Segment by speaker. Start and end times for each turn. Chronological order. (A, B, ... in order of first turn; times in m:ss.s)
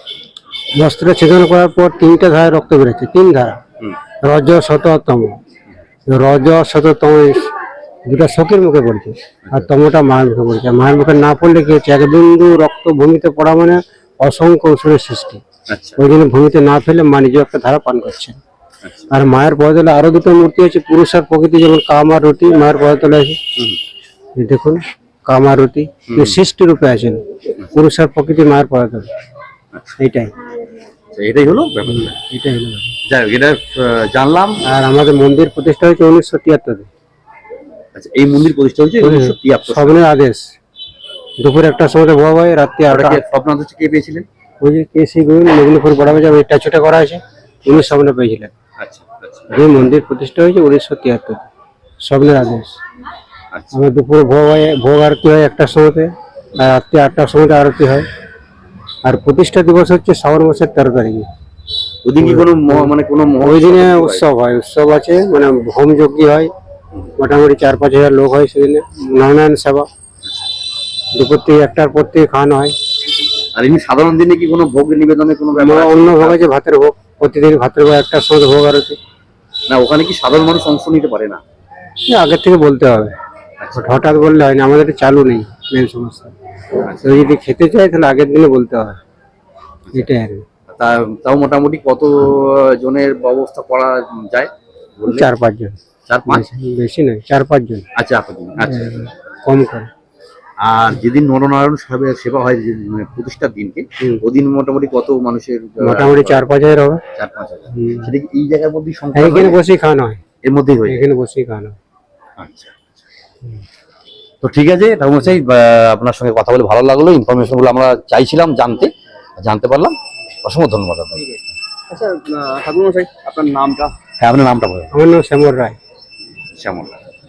0:00.7-0:03.6 A
0:04.2-0:05.4 A
0:06.1-0:07.5 A
0:08.0-0:15.4 A
0:15.7-0:16.0 B
0:16.0-0:18.4 A
0:18.8-0:19.1 B
0:19.1-0:23.4 A
0:24.4-0:29.1 A
0:26.1-0:26.4 B
0:30.0-0:30.3 A
0:31.1-0:32.1 B
0:32.1-0:32.9 A
0:33.1-0:34.6 B
0:34.6-0:36.9 A
0:37.9-0:40.0 B
0:39.0-0:40.5 A
0:41.4-0:43.2 A
0:42.9-0:44.2 B
0:44.6-0:48.5 A
0:48.8-0:49.6 B
0:49.5-0:51.4 A
0:52.0-0:52.8 A
0:53.7-0:58.1 A
0:59.0-1:01.3 A
1:02.0-1:04.2 B
1:02.2-1:02.9 A
1:03.4-1:06.5 A
1:07.2-1:09.9 A
1:11.1-1:12.7 A
1:13.5-1:16.4 B
1:15.5-1:19.0 A
1:19.7-1:21.4 B
1:22.1-1:23.1 A
1:23.6-1:24.0 B
1:23.8-1:26.3 A
1:26.8-1:27.3 B
1:27.0-1:29.0 A
1:29.9-1:30.4 A
1:30.7-1:35.3 B
1:35.1-1:37.8 A
1:36.1-1:36.4 B
1:38.0-1:39.1 B
1:38.6-1:39.9 A
1:40.6-1:46.4 B
1:45.8-1:47.0 A
1:47.1-1:49.6 B
1:47.7-1:48.1 A
1:49.1-1:50.2 A
1:50.4-1:51.0 B
1:50.9-1:51.8 A
1:52.4-1:52.7 B
1:54.4-2:01.4 B
2:01.9-2:03.9 C
2:04.2-2:04.9 B
2:04.9-2:05.8 A
2:06.5-2:07.0 B